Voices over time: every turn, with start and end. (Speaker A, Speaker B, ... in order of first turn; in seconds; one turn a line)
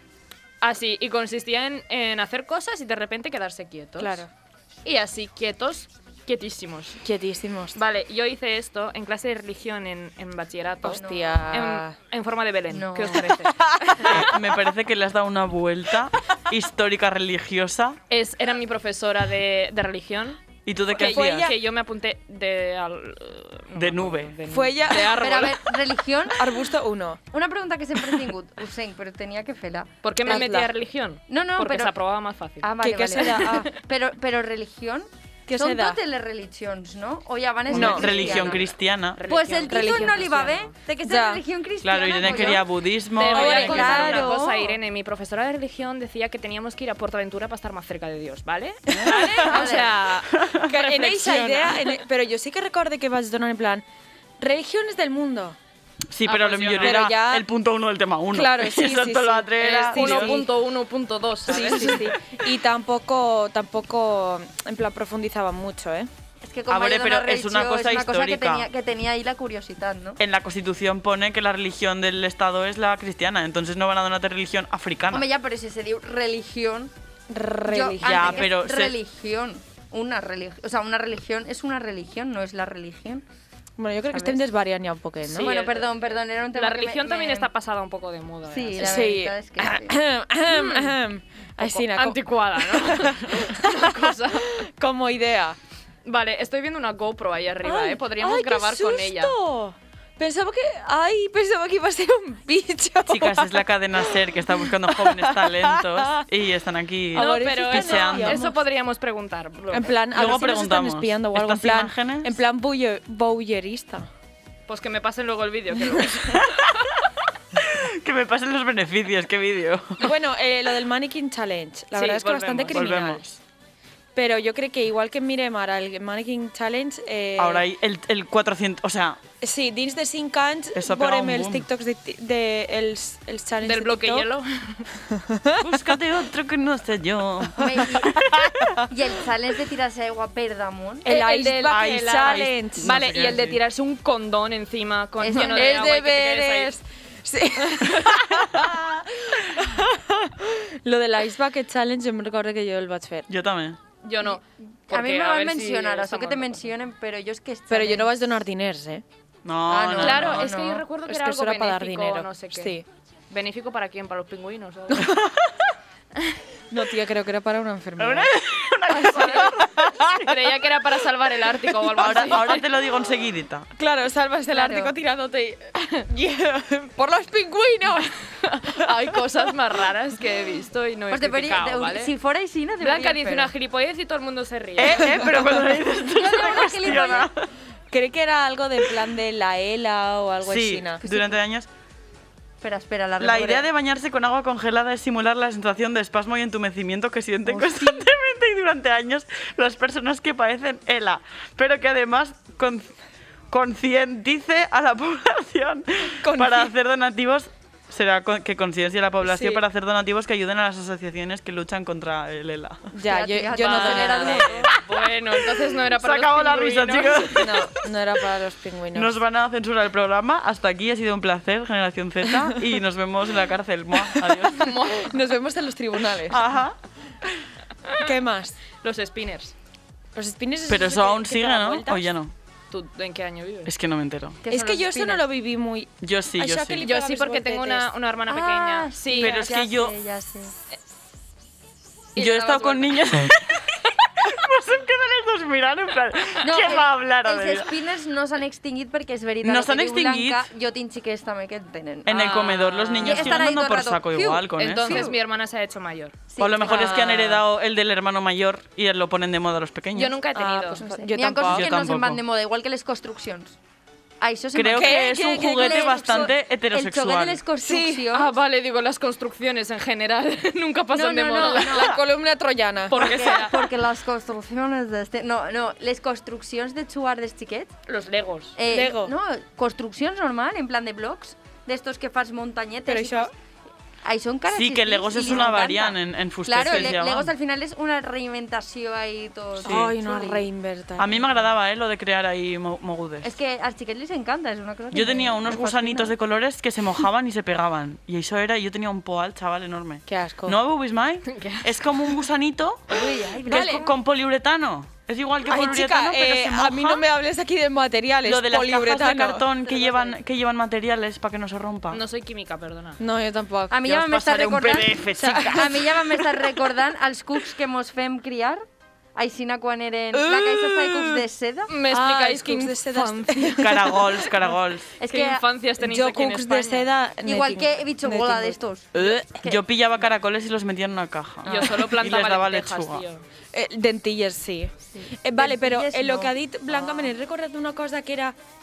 Speaker A: 0.6-4.2
Speaker B: 4.0-4.3
Speaker A: 4.8-7.0
Speaker B: 7.0-7.8
Speaker A: 7.7-14.3
Speaker B: 10.8-11.9
Speaker C: 10.9-11.4
Speaker C: 12.7-13.4
Speaker D: 14.0-18.0
Speaker A: 18.1-25.7
Speaker D: 20.6-21.5
Speaker B: 21.0-21.6
Speaker D: 23.7-24.4
Speaker B: 24.5-25.4
Speaker C: 25.0-26.4
Speaker B: 26.3-27.2
Speaker C: 27.3-29.9
Speaker A: 30.0-33.7
Speaker B: 30.2-30.7
Speaker C: 31.3-31.9
Speaker C: 32.6-38.7
Speaker B: 32.8-33.7
Speaker B: 35.5-36.0
Speaker D: 37.7-39.2
Speaker B: 37.7-38.1
Speaker A: 37.9-40.7
Speaker C: 39.3-42.6
Speaker B: 39.6-40.3
Speaker B: 41.0-41.4
Speaker D: 41.8-44.1
Speaker A: 42.2-42.6
Speaker A: 43.1-52.0
Speaker C: 43.2-44.8
Speaker B: 43.3-44.4
Speaker D: 48.9-49.6
Speaker B: 49.0-49.7
Speaker C: 49.4-50.0
Speaker D: 50.3-50.7
Speaker B: 50.7-53.8
Speaker B: 54.4-55.6
Speaker D: 56.1-60.4
Speaker A: 56.2-57.0
Speaker B: 56.8-57.4
Speaker B: 58.3-60.5
Speaker A: 59.6-62.1
Speaker B: 61.5-66.1
Speaker C: 66.4-70.2
Speaker D: 66.7-68.7
Speaker D: 70.2-75.3
Speaker C: 75.1-76.9
Speaker B: 77.3-78.5
Speaker C: 77.6-83.2
Speaker D: 78.0-78.9
Speaker B: 83.8-85.5
Speaker C: 84.1-84.4
Speaker C: 85.3-87.5
Speaker A: 85.3-85.9
Speaker A: 86.5-89.0
Speaker C: 88.5-90.0
Speaker B: 88.8-95.6
Speaker A: 90.5-91.0
Speaker A: 91.6-94.6
Speaker A: 96.0-99.3
Speaker B: 97.6-106.2
Speaker D: 103.1-108.5
Speaker B: 107.1-108.5
Speaker A: 107.1-110.0
Speaker B: 109.7-114.1
Speaker D: 110.1-112.3
Speaker A: 114.7-117.0
Speaker D: 116.3-116.7
Speaker D: 117.5-120.1
Speaker B: 120.0-123.2
Speaker A: 121.9-122.8
Speaker D: 122.7-123.4
Speaker B: 124.2-127.6
Speaker D: 127.4-129.2
Speaker B: 129.4-134.3
Speaker D: 130.7-131.7
Speaker A: 133.6-134.9
Speaker B: 135.0-135.8
Speaker D: 135.6-138.8
Speaker C: 137.6-138.2
Speaker C: 138.9-141.1
Speaker B: 141.0-143.0
Speaker A: 141.0-146.7
Speaker D: 141.7-143.6
Speaker C: 145.2-145.8
Speaker B: 145.4-153.3
Speaker D: 153.3-153.8
Speaker A: 154.0-156.7
Speaker C: 154.9-158.1
Speaker B: 157.7-159.0
Speaker D: 159.4-160.5
Speaker C: 159.7-160.8
Speaker A: 160.0-162.7
Speaker B: 161.1-162.8
Speaker A: 163.3-165.2
Speaker B: 164.9-165.2
Speaker B: 166.7-168.3
Speaker D: 168.0-170.4
Speaker A: 168.9-172.7
Speaker D: 171.9-173.7
Speaker B: 173.8-179.0
Speaker C: 174.5-174.9
Speaker A: 178.4-182.1
Speaker C: 181.1-183.5
Speaker A: 182.8-185.3
Speaker D: 184.8-187.5
Speaker C: 186.1-187.3
Speaker B: 187.9-191.0
Speaker D: 190.4-191.7
Speaker C: 191.0-191.4
Speaker C: 192.6-193.7
Speaker D: 193.2-202.9
Speaker C: 197.5-198.0
Speaker D: 203.5-212.9
Speaker B: 206.2-206.7
Speaker B: 209.2-209.6
Speaker B: 212.9-214.7
Speaker C: 213.0-214.7
Speaker A: 213.6-217.5
Speaker D: 215.5-217.9
Speaker B: 217.3-219.1
Speaker D: 218.9-224.9
Speaker B: 224.1-226.4
Speaker A: 224.5-225.1
Speaker D: 226.2-227.5
Speaker A: 227.8-228.1
Speaker B: 228.0-228.6
Speaker A: 228.8-229.5
Speaker B: 230.1-232.1
Speaker D: 230.7-232.3
Speaker A: 232.7-233.7
Speaker D: 233.6-234.4
Speaker C: 234.4-235.2
Speaker B: 234.5-237.9
Speaker D: 236.0-236.9
Speaker A: 236.8-239.6
Speaker C: 238.3-240.5
Speaker D: 239.2-240.0
Speaker A: 242.1-243.3
Speaker D: 242.2-247.7
Speaker C: 246.4-255.2
Speaker D: 249.4-250.5
Speaker D: 252.0-255.1
Speaker A: 252.1-253.4
Speaker A: 254.6-257.4
Speaker C: 256.3-257.1
Speaker D: 256.4-260.1
Speaker A: 259.9-260.8
Speaker B: 260.3-261.7
Speaker C: 260.8-263.6
Speaker D: 261.4-262.2
Speaker C: 264.2-268.3
Speaker D: 264.5-267.4
Speaker B: 264.7-265.4
Speaker B: 267.6-268.1
Speaker A: 268.1-272.0
Speaker C: 270.9-272.0
Speaker B: 271.3-273.1
Speaker A: 272.9-273.8
Speaker C: 272.9-277.7
Speaker A: 277.9-278.6
Speaker C: 278.6-283.3
Speaker B: 278.7-279.1
Speaker B: 282.9-283.3
Speaker C: 284.0-290.4
Speaker D: 284.5-287.3
Speaker B: 289.6-291.2
Speaker D: 289.6-289.9
Speaker D: 291.0-293.3
Speaker C: 293.2-296.1
Speaker D: 294.9-307.0
Speaker B: 300.1-300.6
Speaker A: 301.2-302.1
Speaker C: 302.9-303.9
Speaker B: 303.5-303.8
Speaker B: 305.4-309.5
Speaker D: 308.2-312.0
Speaker C: 309.6-310.2
Speaker A: 311.9-313.0
Speaker B: 313.0-313.8
Speaker C: 313.7-318.6
Speaker D: 313.8-315.9
Speaker B: 315.1-316.6
Speaker C: 319.1-321.7
Speaker B: 320.1-321.2
Speaker A: 321.7-324.0
Speaker B: 321.9-324.2
Speaker D: 323.6-324.9
Speaker C: 325.0-325.4
Speaker A: 325.0-326.9
Speaker B: 325.8-328.6
Speaker C: 327.2-329.6
Speaker D: 328.9-333.0
Speaker A: 331.4-333.2
Speaker B: 333.5-338.3
Speaker C: 334.9-337.1